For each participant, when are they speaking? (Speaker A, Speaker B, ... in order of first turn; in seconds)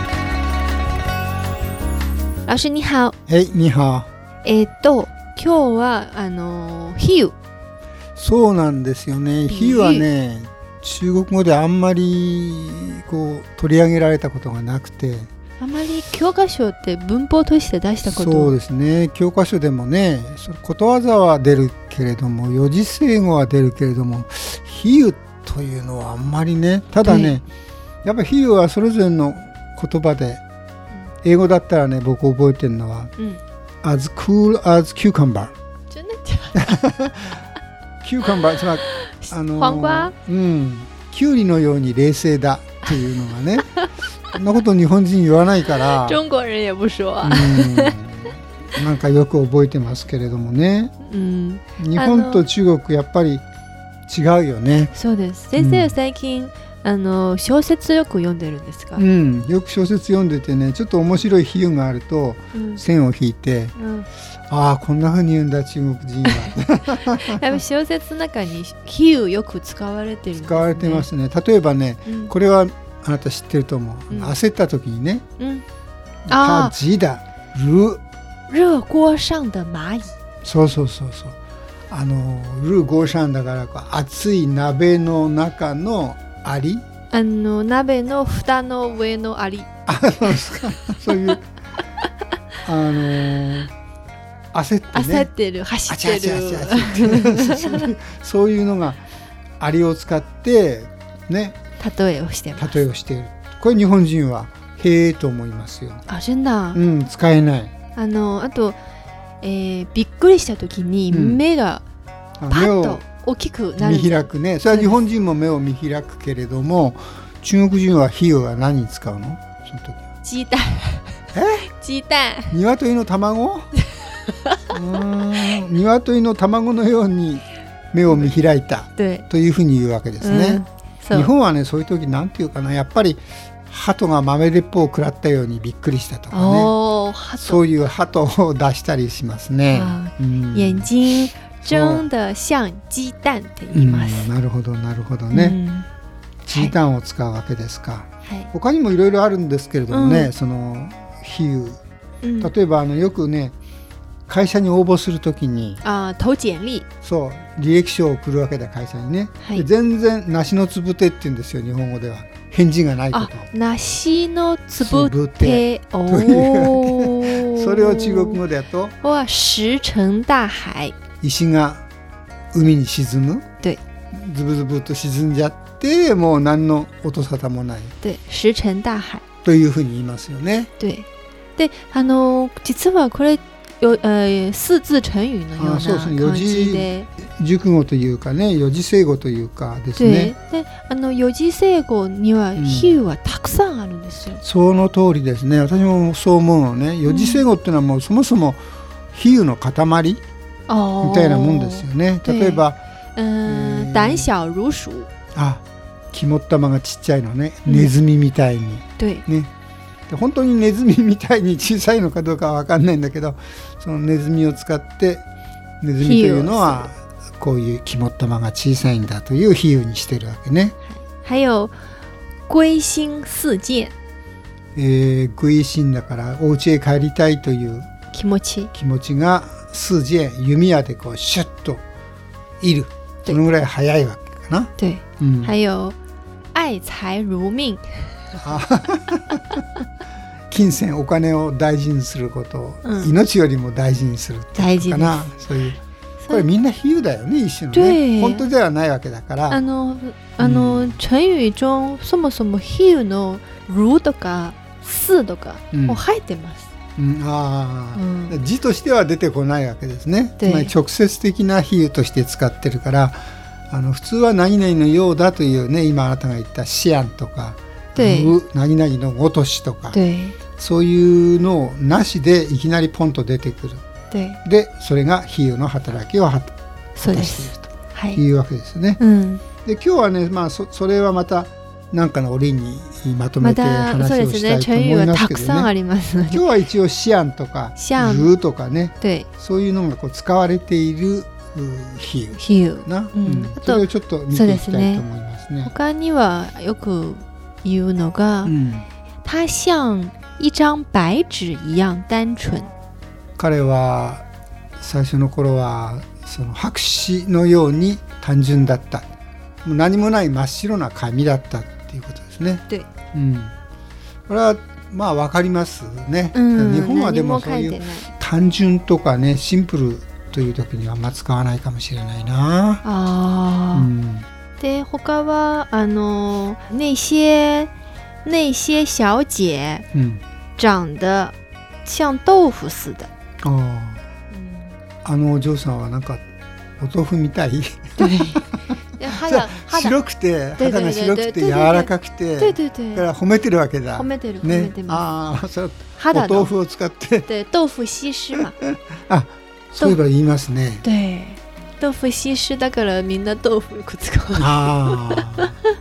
Speaker A: 2.5-3.2, 4.4-7.4, 9.5-10.1, 15.6-18.6, 27.0-27.4, 35.9-36.8, 39.0-40.1, 45.9-48.0, 51.0-52.5, 54.9-59.0, 62.5-62.8, 63.8-64.1, 67.3-71.1, 72.1-72.3, 75.4-75.6, 76.3-76.7, 78.5-80.1, 87.1-89.7, 94.9-97.9, 101.8-102.8, 106.1-106.8, 108.0-108.8, 109.4-111.8, 112.5-115.0, 120.2-122.5, 129.0-129.3, 130.2-131.3, 136.3-137.6, 139.7-144.3, 145.3-145.9, 148.2-148.5, 149.9-150.3, 152.2-152.5, 155.8-156.9, 159.4-159.7, 163.1-168.4, 169.0-171.0, 178.0-179.2, 180.8-187.1, 190.0-194.4, 197.1-197.4, 200.7-202.6, 203.2-205.1, 207.7-207.9, 209.0-209.2, 216.0-216.9, 220.9-221.8, 222.5-223.9, 228.1-228.7, 234.8-236.0, 236.5-238.3, 242.8-243.2, 244.6-245.4, 246.2-246.5, 247.7-248.5, 249.5-256.7, 257.9-258.4, 260.4-260.7, 268.0-268.3, 269.9-270.4, 274.1-274.4, 277.0-278.2, 279.0-279.4, 283.4-286.4, 287.8-288.3, 289.0-289.3, 292.4-295.0, 295.6-298.5, 299.2-302.7, 316.3-318.1, 322.8-323.9, 324.6-327.7, 328.2-329.9, 330.6-333.1, 334.3-334.8, 338.0-340.0, 340.6-343.1, 343.9-345.1, 346.0-346.5, 347.3-348.6, 350.8-355.5
Speaker B: 3.3-4.1, 8.2-15.3, 18.1-27.4, 28.0-30.4, 31.2-33.1, 33.8-35.5, 36.6-37.4, 38.0-43.7, 44.3-46.2, 47.2-50.9, 51.8-53.4, 54.1-54.9, 55.5-56.0, 59.0-63.8, 64.5-67.5, 70.3-75.3, 76.3-78.0, 80.4-81.4, 81.9-86.8, 89.9-91.5, 92.7-93.7, 94.5-95.3, 95.9-99.0, 99.6-101.6, 102.6-106.0, 106.7-107.7, 111.1-111.4, 112.4-113.0, 113.8-120.0, 121.3-121.7, 122.5-123.7, 124.7-136.8, 137.4-140.9, 141.6-142.0, 143.7-145.6, 146.5-151.8, 152.4-153.5, 154.3-155.8, 157.0-163.5, 164.8-168.9, 171.2-171.8, 172.5-173.4, 174.1-177.9, 179.4-180.7, 185.6-190.3, 192.6-193.0, 194.4-200.2, 201.0-202.8, 203.4-204.3, 205.3-209.5, 210.1-215.2, 215.8-220.8, 224.8-227.9, 228.7-231.8, 232.6-235.6, 238.4-239.6, 240.5-245.8, 246.3-249.6, 250.4-251.0, 255.7-256.0, 257.0-270.0, 270.6-273.8, 274.4-279.0, 279.6-285.7, 286.2-295.7, 298.4-298.9, 303.4-304.2, 304.8-309.1, 309.6-313.5, 314.3-322.8, 323.7-324.3, 329.9-330.2, 333.4-334.0, 335.1-336.2, 336.8-338.5, 339.0-347.3, 348.6-350.9, 354.4-355.6